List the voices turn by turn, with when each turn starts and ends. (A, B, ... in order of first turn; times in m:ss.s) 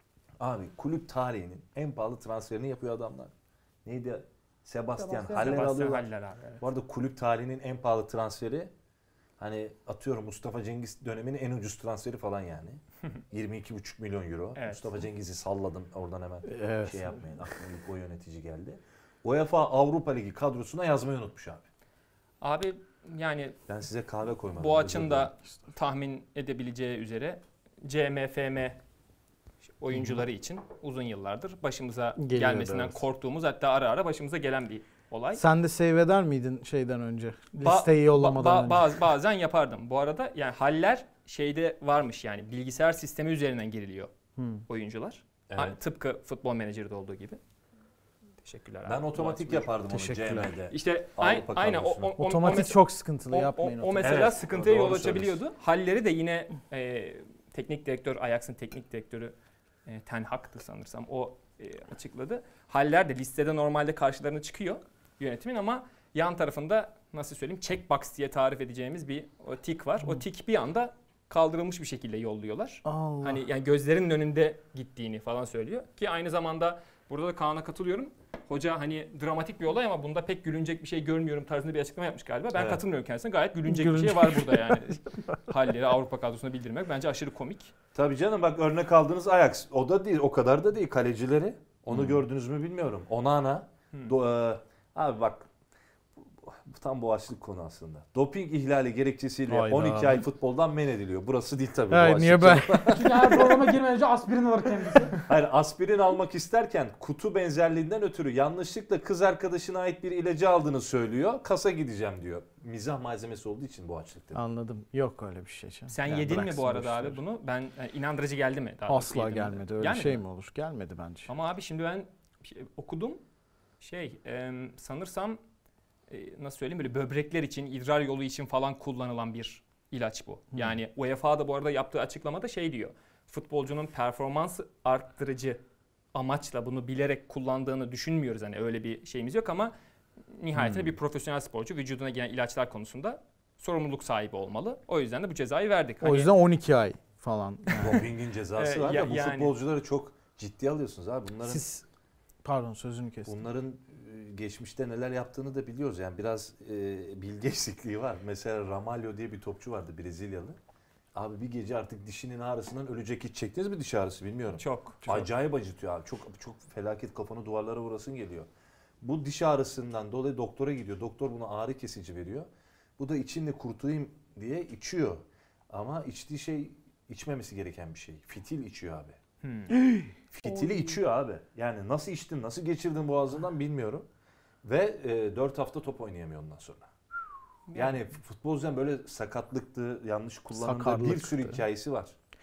0:00.4-0:03.3 A
0:03.8-0:06.1 A
0:05.0-0:05.6 B
0:05.3-0:06.6 C
0:06.6-0:08.7 A
0:09.4-0:21.6 A
0:14.6-0:14.8 C
0:16.5-0:17.2 D
0:22.4-0:23.6 C
0:23.7-0:25.3 A
0:24.6-0:28.8 C
0:29.8-0:35.4 C
0:29.9-0:30.2 D
0:32.2-0:33.0 D
0:35.4-0:39.1 D
0:37.6-0:44.1 C
0:44.4-0:44.6 D
0:44.7-0:47.4 C
0:45.5-0:45.8 A
0:48.4-0:49.7 C
0:48.9-0:52.6 A
0:49.9-0:50.5 D
0:50.7-0:59.3 C
0:52.2-0:54.3 D
0:54.0-0:55.4 A
0:59.9-1:27.7 C
1:12.8-1:13.4 D
1:22.6-1:22.8 A
1:23.7-1:25.5 D
1:28.0-1:35.5 A
1:31.9-1:32.2 D
1:36.4-1:43.7 A
1:39.5-1:40.3 D
1:41.9-1:43.2 D
1:42.9-1:45.2 B
1:45.2-1:54.4 A
1:54.3-1:57.2 D
1:55.9-2:00.2 C
1:58.9-2:01.3 D
2:01.3-2:03.2 C
2:03.8-2:05.4 C
2:06.1-2:15.6 C
2:16.1-2:19.7 C
2:20.3-2:26.3 C
2:20.6-2:21.0 D
2:26.0-2:28.0 D
2:27.8-2:31.6 A
2:28.6-2:29.6 C
2:31.4-2:31.8 D
2:32.4-2:33.4 D
2:33.3-2:40.6 A
2:41.2-2:48.5 A
2:44.6-2:45.0 C
2:45.0-2:45.3 D
2:49.0-2:59.2 A
2:59.4-2:59.8 C
2:59.8-3:00.1 D
3:00.3-3:04.0 A
3:00.5-3:01.0 B
3:04.6-3:06.9 A
3:07.7-3:08.0 C
3:07.7-3:12.1 A
3:10.5-3:11.6 D